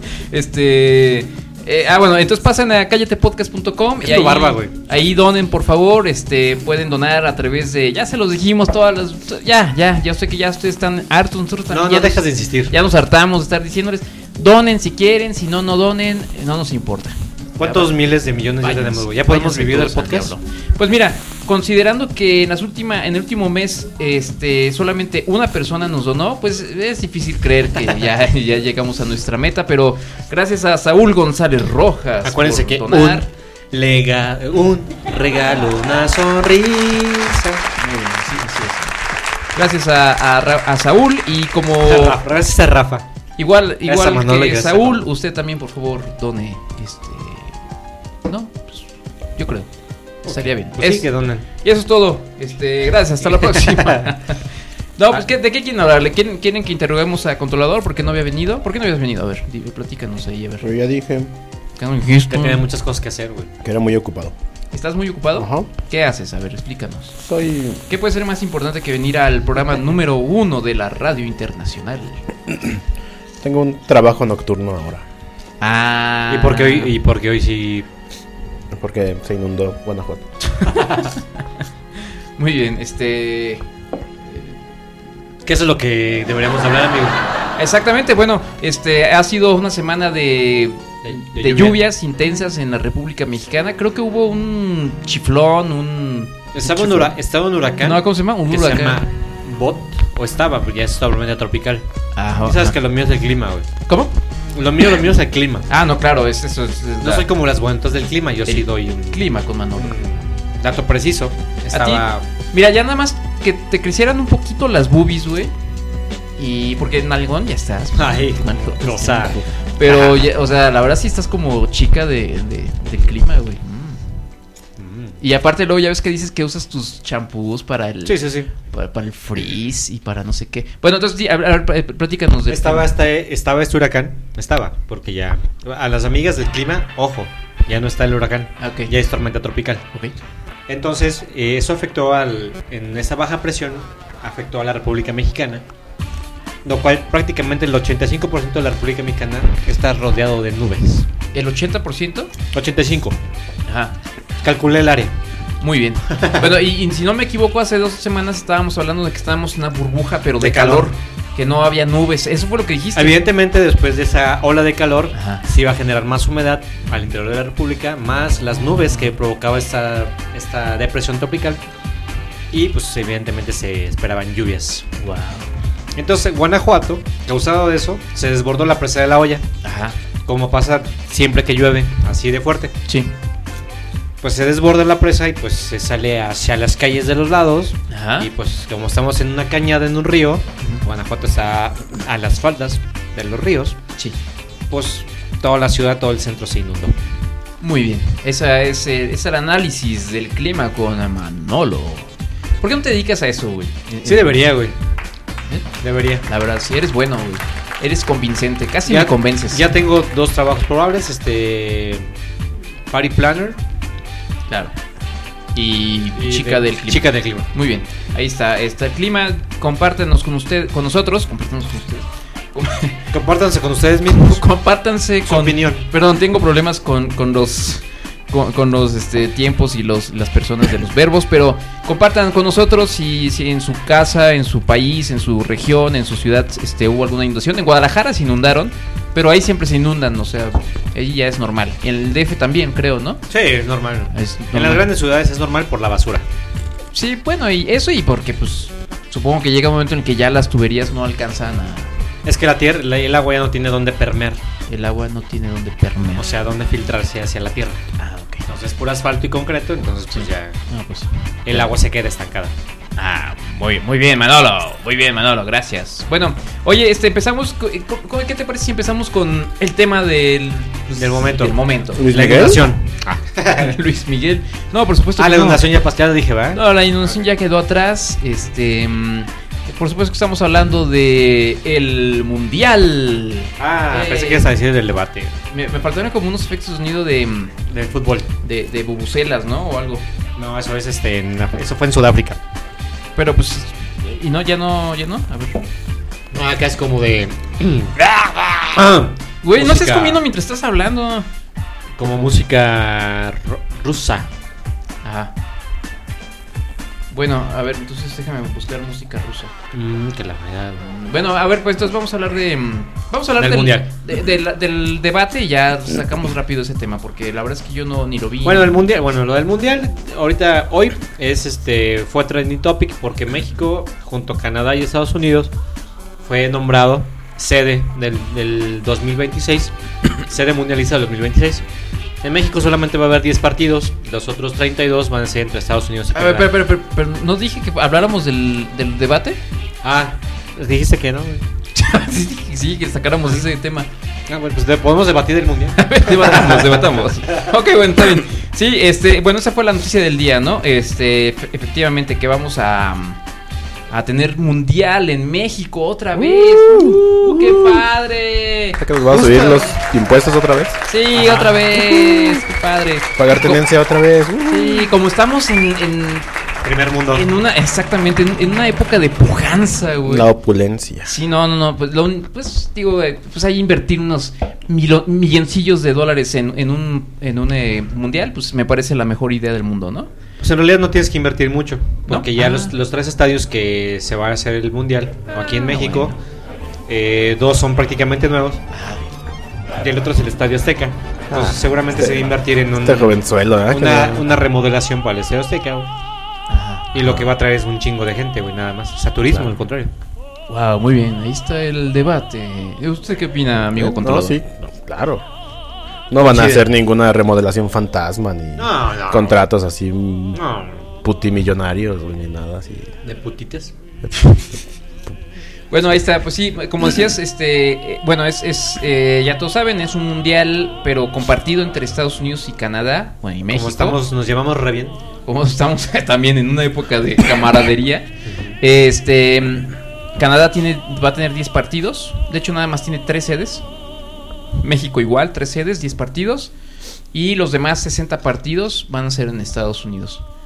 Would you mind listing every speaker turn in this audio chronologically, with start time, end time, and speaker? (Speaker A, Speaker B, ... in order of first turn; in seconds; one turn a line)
Speaker A: 0.3-17.9
Speaker B: 4.0-4.7
Speaker B: 11.7-12.7
Speaker B: 17.6-20.3
Speaker A: 18.6-33.2
Speaker B: 32.2-37.6
Speaker A: 37.8-38.9
Speaker A: 39.5-42.2
Speaker B: 41.8-43.0
Speaker A: 43.4-47.6
Speaker B: 43.9-45.0
Speaker A: 48.2-49.7
Speaker B: 50.2-51.4
Speaker A: 50.2-60.7
Speaker B: 53.3-54.1
Speaker C: 60.6-61.3
Speaker A: 61.8-62.6
Speaker B: 62.3-63.5
Speaker C: 63.6-64.3
Speaker A: 64.7-67.2
Speaker C: 65.3-65.7
Speaker C: 67.2-67.8
Speaker A: 67.9-72.2
Speaker C: 73.4-75.0
Speaker A: 75.6-76.9
Speaker B: 76.3-77.9
Speaker C: 78.7-80.2
Speaker A: 80.5-80.8
Speaker B: 80.7-81.1
Speaker A: 82.4-83.6
Speaker A: 84.2-84.6
Speaker B: 85.4-87.2
Speaker A: 87.6-97.1
Speaker B: 91.0-91.8
Speaker B: 96.5-101.8
Speaker A: 97.8-99.0
Speaker A: 102.1-102.8
Speaker B: 102.4-103.7
Speaker B: 104.5-105.7
Speaker A: 105.7-107.2
Speaker B: 107.0-112.2
Speaker A: 108.5-109.9
Speaker A: 111.7-115.5
Speaker A: 116.4-124.0
Speaker B: 118.0-120.2
Speaker B: 124.8-125.2
Speaker A: 125.2-132.9
Speaker B: 128.1-128.5
Speaker B: 132.5-139.9
Speaker A: 138.6-138.9
Speaker B: 140.7-145.6
Speaker B: 146.6-151.1
Speaker A: 151.3-152.3
Speaker B: 152.5-153.2
Speaker A: 153.7-153.9
Speaker B: 154.4-155.1
Speaker A: 155.6-163.2
Speaker B: 156.1-156.4
Speaker B: 160.4-160.9
Speaker B: 162.9-171.6
Speaker A: 165.1-165.4
Speaker B: 172.5-174.9
Speaker A: 175.0-175.5
Speaker B: 175.9-179.4
Speaker A: 179.6-179.9
Speaker B: 180.2-182.7
Speaker A: 182.9-183.1
Speaker B: 184.2-193.8
Speaker A: 187.9-188.3
Speaker B: 194.7-196.9
Speaker A: 197.6-204.4
Speaker B: 204.0-204.7
Speaker B: 205.8-206.2
Speaker A: 206.2-209.7
Speaker B: 208.9-212.1
Speaker B: 212.9-213.6
Speaker A: 214.5-214.7
Speaker A: 215.5-223.1
Speaker B: 216.2-217.5
Speaker B: 223.1-224.4
Speaker A: 224.1-243.2
Speaker B: 225.2-225.9
Speaker B: 243.3-246.2
Speaker A: 244.1-244.9
Speaker A: 246.9-251.9
Speaker B: 252.2-254.4
Speaker A: 254.7-256.2
Speaker B: 256.2-257.9
Speaker A: 258.0-258.4
Speaker B: 258.5-260.6
Speaker A: 260.1-261.7
Speaker B: 261.4-262.5
Speaker A: 263.0-272.1
Speaker B: 270.9-273.8
Speaker C: 271.9-272.7
Speaker A: 273.5-275.6
Speaker B: 275.2-276.6
Speaker A: 276.5-284.5
Speaker B: 283.6-285.4
Speaker A: 285.5-287.5
Speaker B: 287.7-288.3
Speaker A: 288.4-290.0
Speaker B: 290.4-292.4
Speaker A: 293.1-295.6
Speaker B: 296.3-298.0
Speaker B: 298.7-300.2
Speaker A: 299.4-301.3
Speaker B: 302.0-304.3
Speaker A: 305.0-305.3
Speaker A: 307.1-309.5
Speaker B: 309.7-310.9
Speaker A: 310.8-318.8
Speaker B: 313.4-313.9
Speaker B: 318.4-325.5
Speaker B: 326.2-331.6
Speaker B: 332.2-336.5
Speaker A: 336.1-339.4
Speaker B: 339.8-341.4
Speaker A: 341.8-343.9
Speaker B: 344.3-347.4
Speaker A: 345.8-353.2
Speaker A: 353.9-359.8
Speaker C: 356.2-357.8
Speaker C: 358.8-360.8
Speaker A: 360.9-363.6
Speaker B: 361.2-361.5
Speaker C: 361.8-362.4
Speaker C: 363.1-364.9
Speaker A: 364.4-366.2
Speaker B: 366.6-367.2
Speaker A: 367.1-370.3
Speaker C: 370.0-371.1
Speaker A: 371.0-380.1
Speaker B: 380.4-386.1
Speaker A: 382.1-382.7
Speaker A: 385.6-386.1
Speaker B: 386.9-388.6
Speaker A: 388.7-389.1
Speaker B: 389.8-395.9
Speaker C: 391.3-394.3
Speaker A: 396.5-396.9
Speaker B: 396.9-399.9
Speaker C: 397.0-397.2
Speaker A: 400.5-404.4
Speaker C: 403.8-405.2
Speaker C: 406.1-410.4
Speaker A: 406.2-406.6
Speaker B: 408.6-409.4
Speaker B: 410.3-410.8
Speaker C: 411.0-412.9
Speaker B: 413.0-413.7
Speaker C: 414.1-414.4
Speaker A: 415.7-424.0
Speaker B: 423.5-425.0
Speaker A: 425.2-428.1
Speaker B: 428.3-428.6
Speaker A: 428.6-433.6
Speaker A: 434.6-436.5
Speaker A: 437.1-440.2